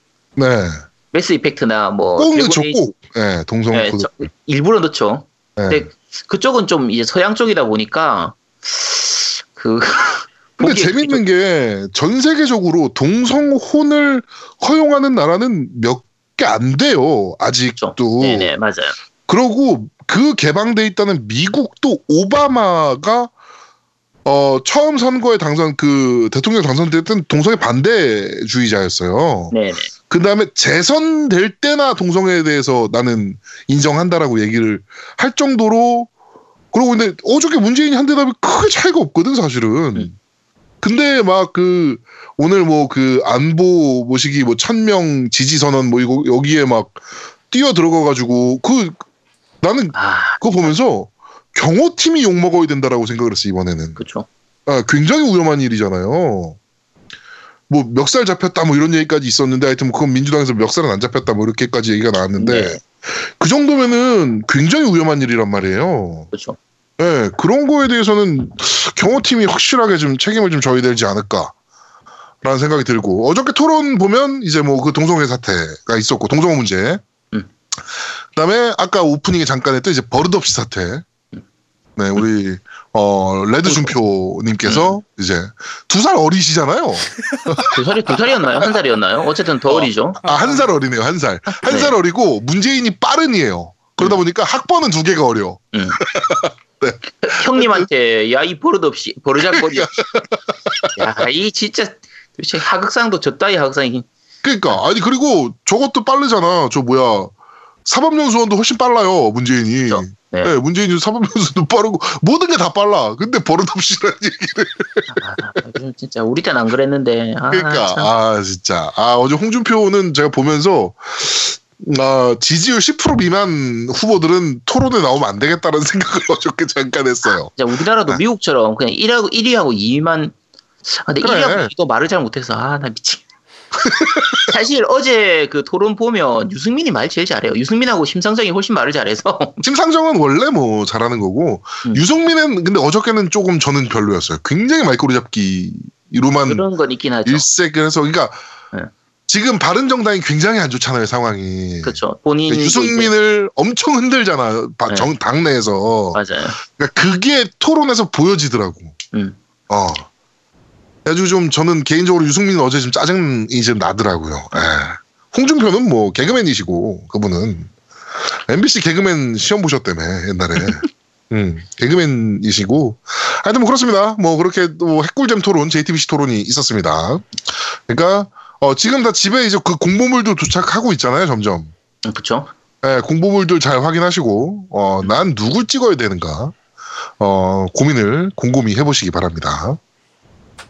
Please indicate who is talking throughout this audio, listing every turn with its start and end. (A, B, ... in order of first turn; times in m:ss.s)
0:00.4-0:00.8 A
0:01.1-0:02.8 B
0:02.2-0:04.3 A
0:03.7-0:11.2 B
0:05.6-0:05.9 A
0:10.6-0:18.5 A
0:17.8-0:19.0 B
0:19.3-0:23.3 A
0:24.2-0:29.5 A
0:29.5-0:29.9 B
0:30.1-0:36.1 A
0:36.7-0:40.1 A
0:40.8-0:49.0 A
0:49.6-0:54.0 A
0:49.9-0:50.7 B
0:54.0-0:54.3 B
0:54.7-0:56.6 A
0:57.7-1:06.3 A
1:02.4-1:02.8 B
1:06.3-1:06.6 B
1:07.0-1:11.5 A
1:12.4-1:17.0 A
1:18.3-1:21.0 A
1:22.0-1:27.7 A
1:23.6-1:23.9 B
1:24.6-1:24.9 B
1:27.7-1:30.2 B
1:29.7-1:37.9 A
1:31.5-1:32.0 B
1:35.7-1:36.0 B
1:37.2-1:39.9 B
1:39.4-1:41.0 A
1:41.0-1:44.1 B
1:44.4-1:47.3 A
1:47.8-1:55.1 A
1:49.9-1:50.6 B
1:55.1-1:58.1 B
1:57.5-2:07.5 A
2:07.6-2:10.3 B
2:10.9-2:13.2 B
2:11.2-2:11.7 A
2:13.8-2:14.4 A
2:14.5-2:19.6 B
2:19.6-2:26.6 A
2:26.5-2:27.5 B
2:27.2-2:28.4 A
2:29.3-2:38.9 A
2:31.8-2:33.1 B
2:36.1-2:36.6 B
2:39.7-2:40.1 A
2:41.0-2:47.7 A
2:48.3-3:01.7 A
3:02.0-3:02.5 B
3:02.8-3:06.5 A
3:07.2-3:09.8 A